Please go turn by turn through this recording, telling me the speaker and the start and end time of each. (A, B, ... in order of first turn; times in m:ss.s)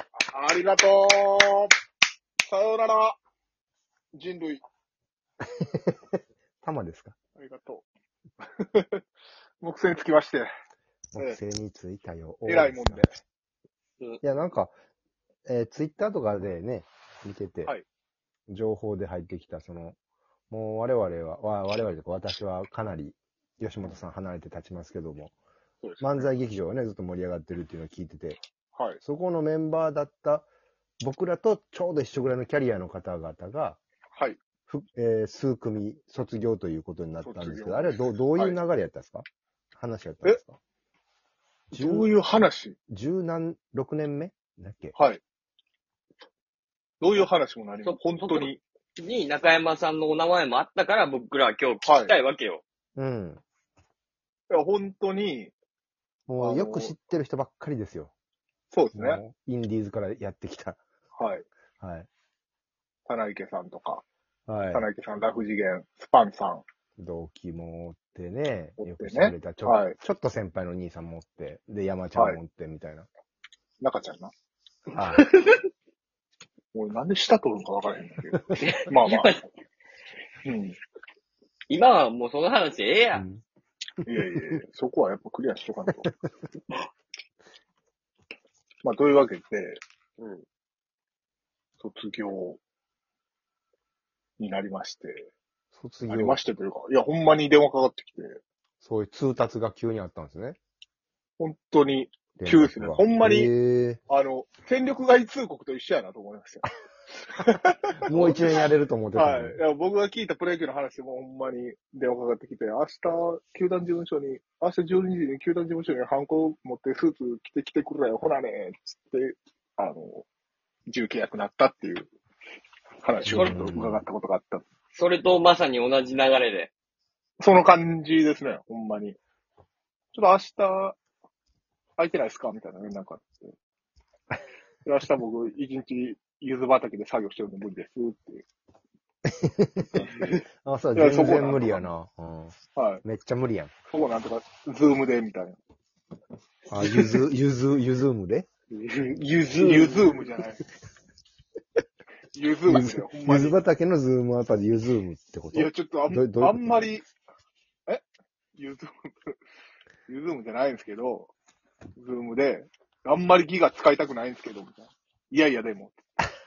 0:00.3-0:01.7 A
0:02.5-0:03.2 A
0:04.1-0:04.6 A
0:05.4-0:07.2 B
0:07.4-0:07.9 A
0:08.6-0:09.0 A
0:09.6-0:10.5 A
0:11.1-0:13.1 B
0:12.5-0:13.1 A
0:14.2-0:14.7 B
0:15.5-0:17.7 B
0:18.5-0:20.0 B
0:20.5-0:25.4 B
0:25.8-0:26.3 A
0:26.0-0:28.4 B
0:28.8-0:29.0 A
0:29.0-0:30.5 B
0:31.0-0:33.8 B
0:34.7-0:40.6 B
0:37.2-0:38.6 A
0:41.7-0:42.8 A
0:41.7-0:42.1 B
0:42.9-0:45.0 B
0:45.0-0:45.2 A
0:47.0-0:48.6 A
0:47.8-0:52.6 C
0:51.8-0:52.2 A
0:53.0-0:53.4 B
0:54.5-0:55.5 A
0:56.3-0:58.1 B
0:56.4-0:57.0 A
0:58.7-0:59.2 A
0:59.0-1:00.8 B
1:01.2-1:01.5 A
1:01.8-1:02.1 B
1:03.1-1:04.0 A
1:04.5-1:04.9 B
1:04.7-1:06.6 A
1:07.0-1:13.1 B
1:08.8-1:10.0 A
1:13.8-1:14.3 A
1:14.9-1:15.3 B
1:15.2-1:15.6 C
1:16.7-1:19.4 A
1:18.6-1:19.4 C
1:20.4-1:20.8 A
1:21.7-1:23.3 C
1:23.1-1:23.4 B
1:24.0-1:24.5 B
1:24.1-1:26.1 A
1:28.8-1:29.8 A
1:30.2-1:30.4 C
1:31.8-1:32.6 A
1:34.4-1:35.3 A
1:35.7-1:36.4 B
1:36.1-1:38.4 A
1:38.8-1:40.6 B
1:41.4-1:43.5 A
1:42.4-1:44.0 B
1:44.1-1:46.7 A
1:47.3-1:48.4 A
1:47.4-1:49.6 B
1:49.2-2:00.3 A
2:00.9-2:02.1 A
2:03.0-2:04.6 A
2:03.2-2:04.0 B
2:04.9-2:06.7 C
2:07.4-2:09.2 A
2:10.1-2:11.0 A
2:12.0-2:13.6 A
2:14.8-2:18.5 A
2:19.3-2:23.7 B
2:20.0-2:20.4 C
2:21.0-2:21.8 A
2:22.8-2:23.0 A
2:23.9-2:25.6 A
2:26.7-2:28.5 B
2:28.7-2:30.2 C
2:29.6-2:30.6 A
2:32.4-2:33.6 A
2:32.7-2:36.9 B
2:35.5-2:37.1 A
2:38.6-2:39.4 A
2:40.1-2:41.3 A
2:42.0-2:46.0 A